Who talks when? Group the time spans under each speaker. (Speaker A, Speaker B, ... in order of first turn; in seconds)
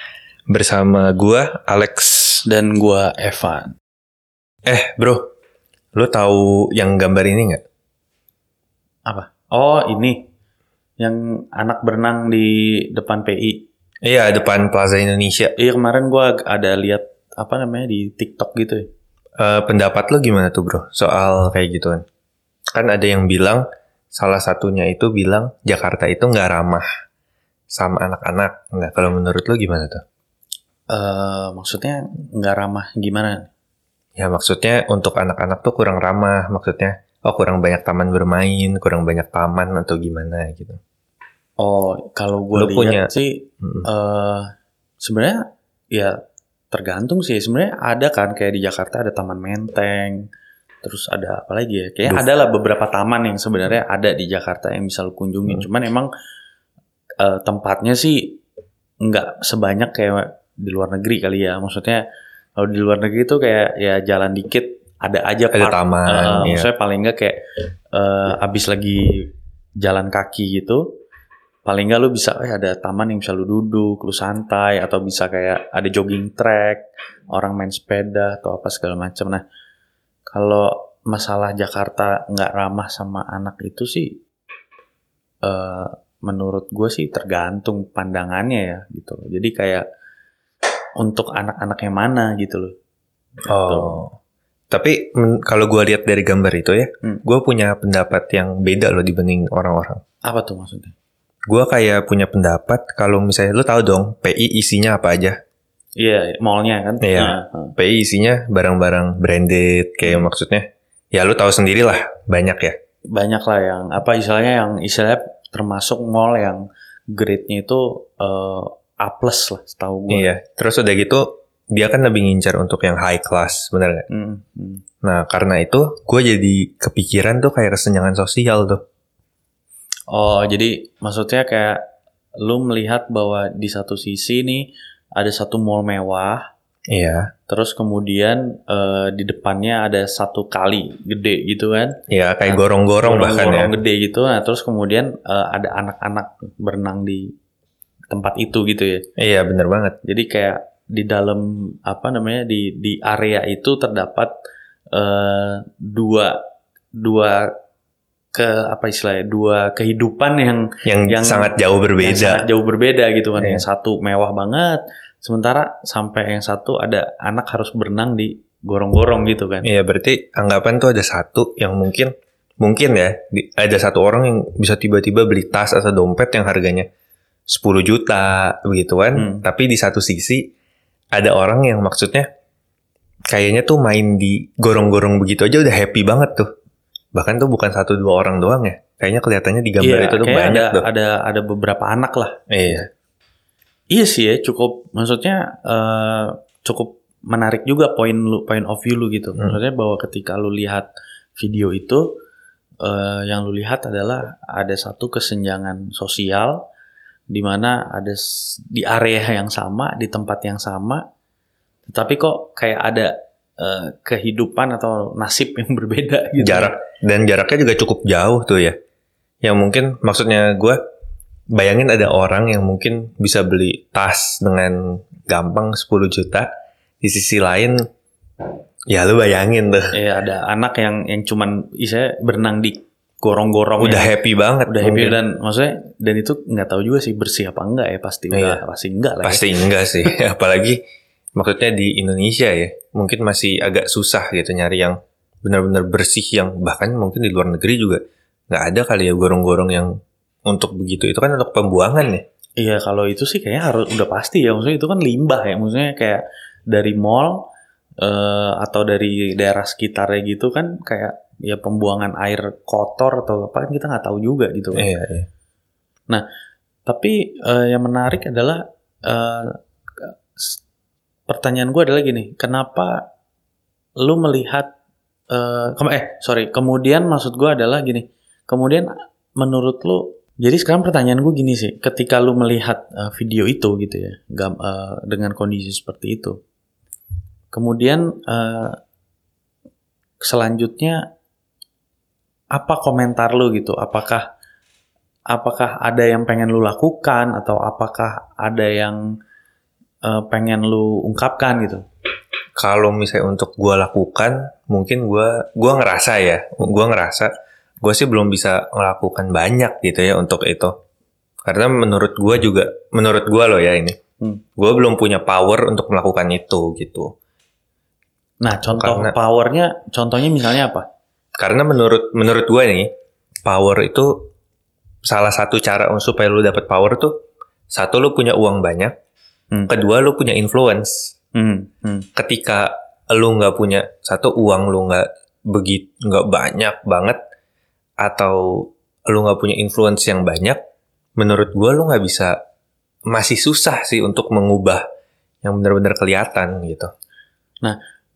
Speaker A: 0.5-2.4, 4.7-5.3, 6.0-7.6, 14.0-15.5, 19.4-22.0, 22.7-26.9, 27.8-30.0, 34.2-40.8, 42.5-43.1, 43.6-43.9, 65.5-66.7, 93.5-94.1, 94.7-100.0, 101.5-105.4, 107.0-112.8, 120.1-124.0, 125.0-128.8, 136.9-137.3, 142.1-143.7, 149.2-150.0, 160.8-162.4, 163.4-163.6, 169.6-176.9, 177.5-180.4, 181.1-182.3, 183.3-186.5, 187.2-190.8, 192.5-192.9, 216.4-218.8, 219.4-220.8, 221.5-226.5, 227.0-227.8, 228.9-229.9, 233.8-235.2, 238.3-238.6, 239.2-240.8, 241.4-249.9, 250.5-252.2, 264.8-265.3, 302.6-307.3, 307.8-310.7, 311.4-314.0, 314.6-317.1, 318.7-319.1, 321.4-322.9, 323.4-324.1, 325.0-327.1, 327.7-328.9, 329.7-331.1, 332.1-337.2, 338.0-340.6, 341.2-342.3, 343.1-344.8, 345.4-346.9
Speaker B: 2.5-3.7, 9.1-10.2, 11.0-13.7, 15.6-18.9, 30.9-33.5, 41.6-44.5, 45.0-45.4, 46.7-50.2, 50.8-56.1, 57.2-58.4, 59.0-62.0, 62.6-67.4, 67.9-69.1, 69.8-70.8, 71.7-79.4, 80.3-84.1, 85.4-89.8, 91.0-92.7, 93.5-94.0, 100.3-100.9, 106.0-107.7, 110.0-110.3, 113.1-116.6, 117.1-120.3, 124.1-124.8, 130.1-131.8, 132.4-136.4, 137.5-147.3, 148.1-149.1, 150.1-154.3, 154.9-156.4, 157.0-157.5, 158.3-169.7, 179.2-179.4, 189.8-192.8, 193.9-200.9, 201.4-202.0, 202.8-206.6, 207.3-211.0, 211.9-216.8, 229.9-234.1, 234.7-239.4, 252.6-257.4, 258.0-264.9, 266.9-270.6, 271.3-273.0, 274.0-274.7, 275.3-286.4, 287.5-288.8, 290.2-291.0, 292.5-294.2, 295.3-299.0, 300.0-301.8, 318.4-320.9, 331.3-332.1